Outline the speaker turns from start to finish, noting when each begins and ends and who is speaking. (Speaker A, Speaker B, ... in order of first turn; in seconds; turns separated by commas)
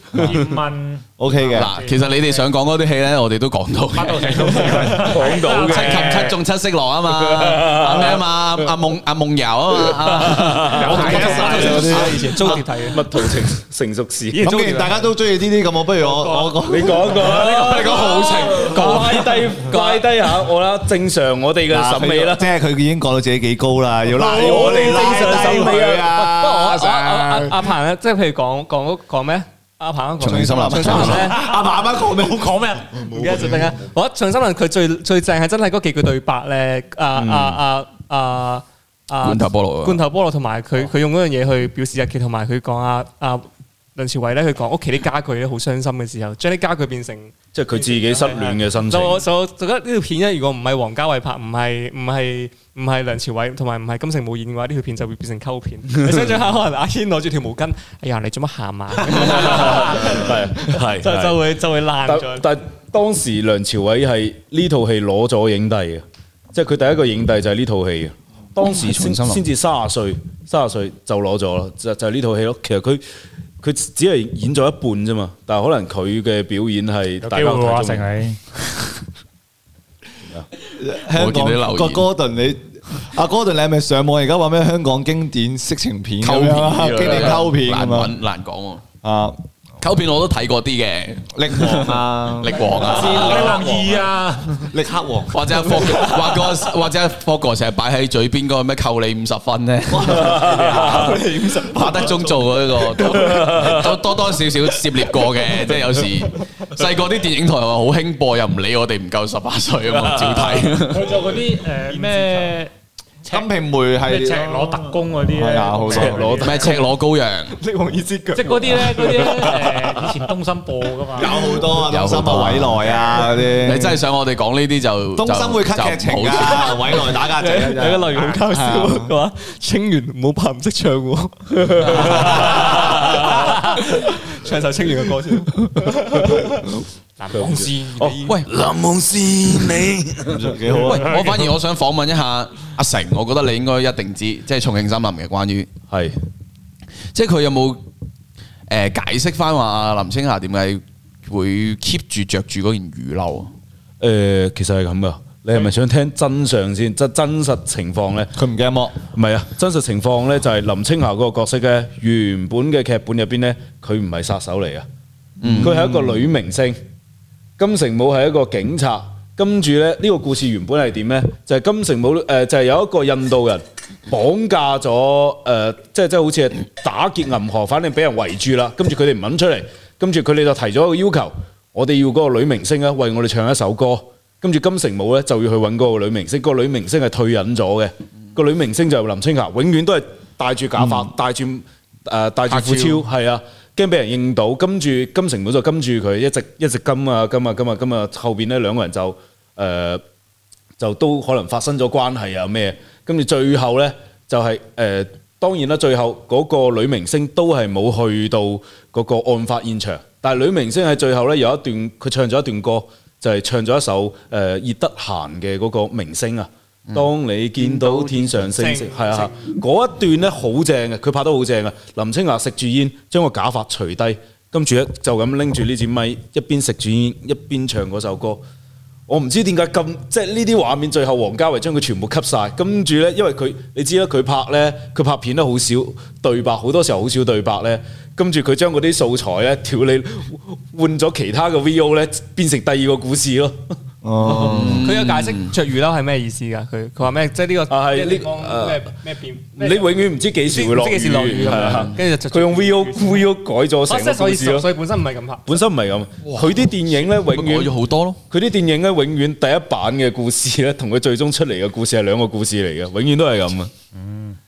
Speaker A: 0.1-2.4, Speaker B: 1.2-1.7, Speaker C: 1.5-4.8, Speaker A: 3.9-6.4, Speaker D: 4.5-6.3, Speaker C: 5.6-12.2, Speaker D: 7.2-8.2, Speaker D: 9.8-14.7, Speaker A: 10.7-12.0, Speaker E: 10.8-13.2, Speaker B: 11.7-12.0, Speaker E: 14.3-15.0, Speaker B: 14.4-17.2, Speaker A: 16.0-16.5, Speaker D: 16.6-22.5, Speaker C: 17.2-20.0, Speaker B: 21.7-27.7, Speaker D: 24.1-26.2, Speaker E: 24.6-31.5, Speaker C: 30.2-31.3, Speaker B: 30.2-33.8, Speaker A: 32.2-32.9, Speaker E: 33.1-47.3, Speaker D: 37.1-37.6, Speaker C: 39.2-40.0, Speaker D: 47.5-49.2, Speaker E: 47.9-62.5, Speaker D: 56.0-56.4, Speaker D: 59.1-61.4, Speaker D: 62.0-73.0, Speaker C: 68.6-69.4, Speaker D: 73.6-78.1, Speaker A: 77.2-78.4, Speaker B: 80.6-88.1, Speaker C: 81.1-82.1, Speaker C: 86.2-88.8, Speaker B: 89.0-89.4, Speaker C: 89.8-93.7, Speaker B: 91.3-94.0, Speaker A: 92.7-94.7, Speaker B: 94.6-95.4, Speaker C: 95.3-111.2, Speaker E: 95.5-96.5, Speaker B: 100.1-101.0, Speaker D: 100.1-101.1, Speaker E: 100.4-102.3, Speaker B: 101.8-102.4, Speaker D: 103.2-103.9, Speaker D: 110.0-110.7, Speaker A: 110.7-112.7, Speaker E: 111.9-112.5, Speaker A: 113.2-113.5, Speaker B: 113.3-116.6, Speaker A: 114.0-116.8, Speaker D: 115.9-116.5, Speaker C: 116.4-117.5, Speaker E: 117.5-119.7, Speaker A: 118.3-121.6, Speaker B: 121.1-124.0, Speaker C: 121.8-127.1, Speaker B: 125.2-129.1, Speaker E: 127.2-138.4, Speaker D: 131.7-133.1, Speaker D: 137.3-140.6, Speaker B: 140.3-141.4, Speaker C: 140.7-145.7, Speaker A: 141.0-141.3, Speaker D: 145.9-146.2, Speaker C: 147.1-147.8, Speaker C: 148.7-153.5, Speaker D: 154.0-158.3, Speaker B: 158.3-159.0, Speaker D: 159.1-164.8, Speaker C: 165.4-165.8, Speaker B: 165.4-166.2, Speaker D: 165.6-166.8, Speaker D: 167.6-200.0, Speaker B: 190.8-191.0, Speaker C: 192.5-193.0, Speaker D: 200.8-228.4, Speaker C: 217.6-218.2, Speaker E: 218.3-219.5, Speaker D: 229.1-243.8, Speaker B: 244.0-244.8, Speaker C: 244.2-245.5, Speaker E: 244.7-253.3, Speaker D: 247.7-248.9, Speaker D: 249.5-254.7, Speaker C: 251.6-251.9, Speaker E: 253.8-255.5, Speaker D: 255.4-257.7, Speaker C: 256.2-258.2, Speaker D: 258.3-263.7, Speaker A: 264.0-264.3